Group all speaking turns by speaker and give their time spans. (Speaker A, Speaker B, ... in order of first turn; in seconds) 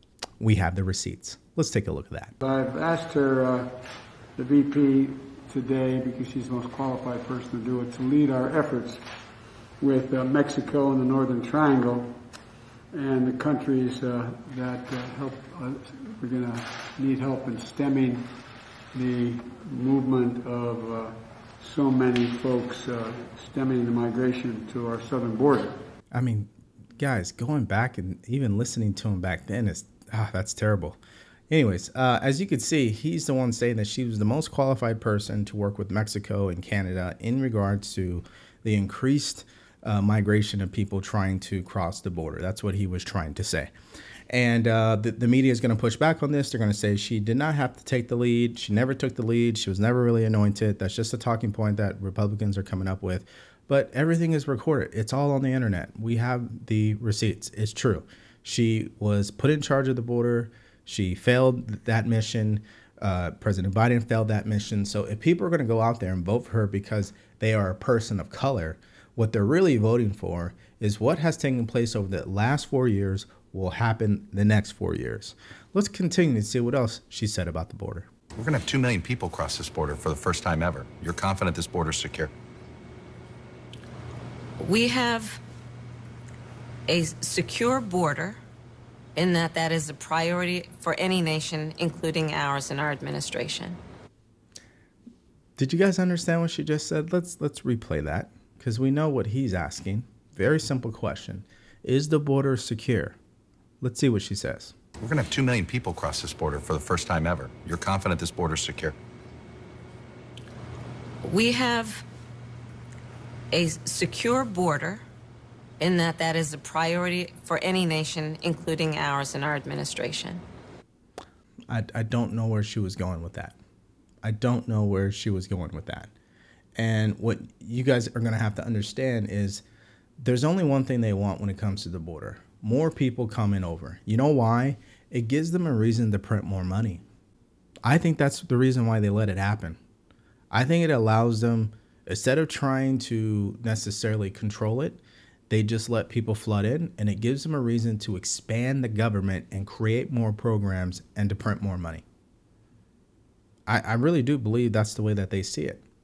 Speaker A: 0.4-2.3, 26.1-31.0, 31.5-43.7, 44.3-78.1, 95.6-103.2, 103.8-104.8, 121.7-123.6, 124.2-126.1, 126.8-129.6, 130.2-137.0, 137.8-139.8, 140.5-152.0, 153.7-155.8
Speaker B: 2.4-3.8, 4.4-9.0, 9.8-12.2, 12.9-18.3, 18.9-25.8
Speaker C: 78.4-82.3, 105.0-109.0
Speaker D: 84.6-85.4, 86.9-88.4, 89.2-93.8, 111.2-112.0, 113.5-115.0, 115.8-120.4